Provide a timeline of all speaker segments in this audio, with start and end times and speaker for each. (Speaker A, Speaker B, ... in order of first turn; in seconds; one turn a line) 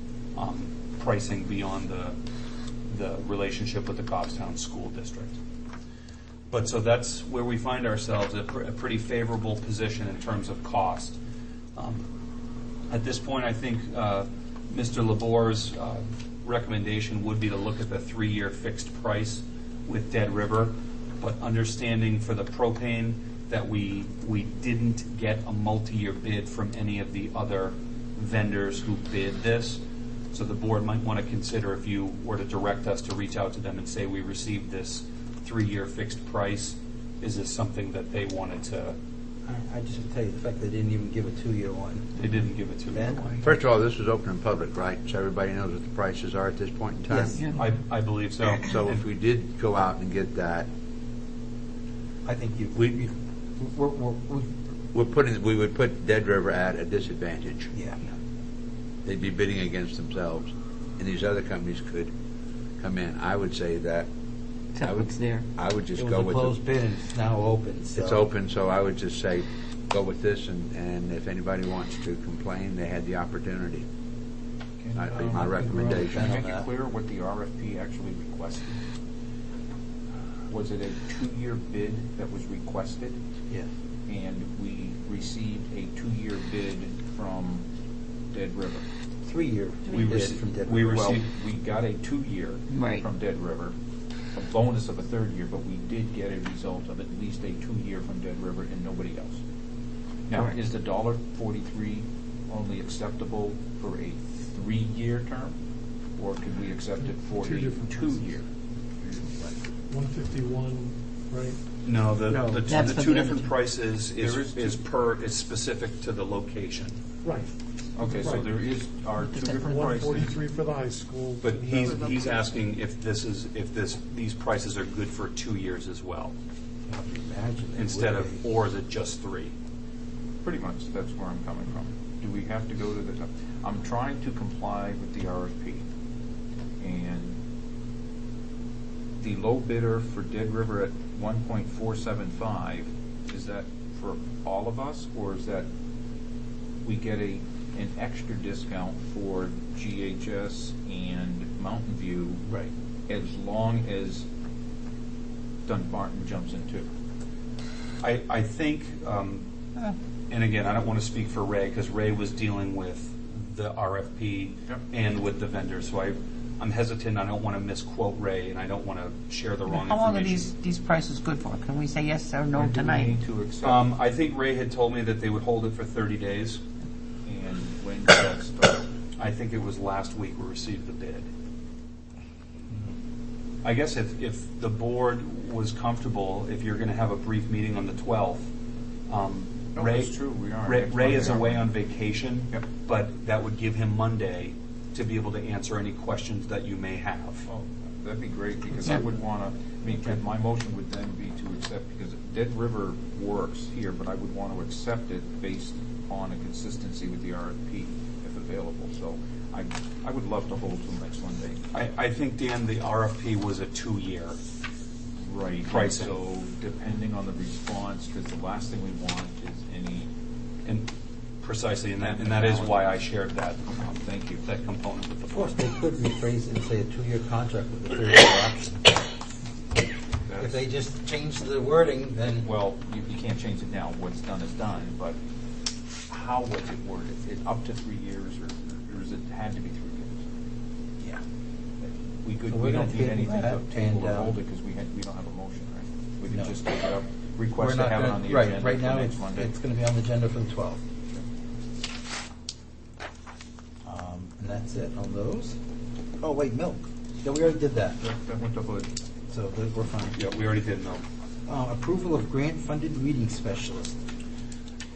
Speaker A: 0.3-2.2
Speaker A: 2.9-5.4
Speaker A: 6.5-11.2
Speaker A: 11.8-12.1
Speaker A: 12.9-39.0
Speaker B: 39.5-42.4
Speaker A: 42.1-43.4
Speaker B: 42.9-43.4
Speaker C: 43.4-47.4
Speaker B: 47.1-47.4
Speaker D: 47.2-47.6
Speaker A: 47.5-49.0
Speaker C: 48.5-50.7
Speaker B: 52.2-54.5
Speaker C: 52.7-53.0
Speaker C: 54.9-57.7
Speaker B: 57.7-58.1
Speaker C: 59.0-62.1
Speaker C: 62.8-64.1
Speaker D: 64.7-65.5
Speaker C: 64.8-66.5
Speaker B: 65.9-68.2
Speaker C: 68.0-73.8
Speaker E: 74.8-78.8
Speaker C: 74.9-76.3
Speaker B: 75.2-76.7
Speaker E: 80.5-83.2
Speaker E: 84.1-87.6
Speaker E: 88.3-88.8
Speaker B: 89.2-91.0
Speaker A: 89.9-91.3
Speaker E: 90.8-93.7
Speaker D: 92.7-93.0
Speaker E: 94.3-99.4
Speaker E: 100.3-105.5
Speaker E: 106.2-108.5
Speaker F: 107.0-108.3
Speaker F: 109.8-111.6
Speaker A: 111.8-117.0
Speaker B: 112.3-112.6
Speaker D: 112.7-113.5
Speaker E: 114.2-114.8
Speaker F: 117.2-118.5
Speaker E: 118.0-120.3
Speaker F: 119.6-122.5
Speaker A: 121.4-126.3
Speaker B: 126.9-128.4
Speaker A: 127.7-129.5
Speaker E: 130.4-135.8
Speaker E: 136.8-137.3
Speaker E: 139.2-145.7
Speaker E: 146.8-152.4
Speaker E: 153.1-154.2
Speaker E: 155.7-156.9
Speaker A: 158.0-159.4
Speaker A: 160.3-170.5
Speaker D: 169.7-173.2
Speaker E: 172.5-173.9
Speaker A: 173.6-176.6
Speaker E: 177.2-178.9
Speaker A: 179.2-181.3
Speaker A: 183.6-188.5
Speaker A: 189.1-197.5
Speaker E: 189.7-191.7
Speaker E: 197.5-211.6
Speaker A: 211.7-214.4
Speaker E: 215.2-220.1
Speaker A: 215.7-216.1
Speaker A: 221.4-225.6
Speaker E: 222.0-223.0
Speaker E: 223.7-224.4
Speaker B: 225.3-229.0
Speaker E: 230.3-230.6
Speaker B: 230.4-232.5
Speaker E: 232.4-235.2
Speaker E: 236.1-240.2
Speaker E: 242.2-249.5
Speaker B: 242.4-244.4
Speaker B: 246.3-246.6
Speaker B: 247.6-250.8
Speaker B: 253.8-255.6
Speaker B: 256.2-258.0
Speaker E: 258.0-258.9
Speaker B: 259.3-260.1
Speaker A: 260.1-261.0
Speaker B: 261.5-263.9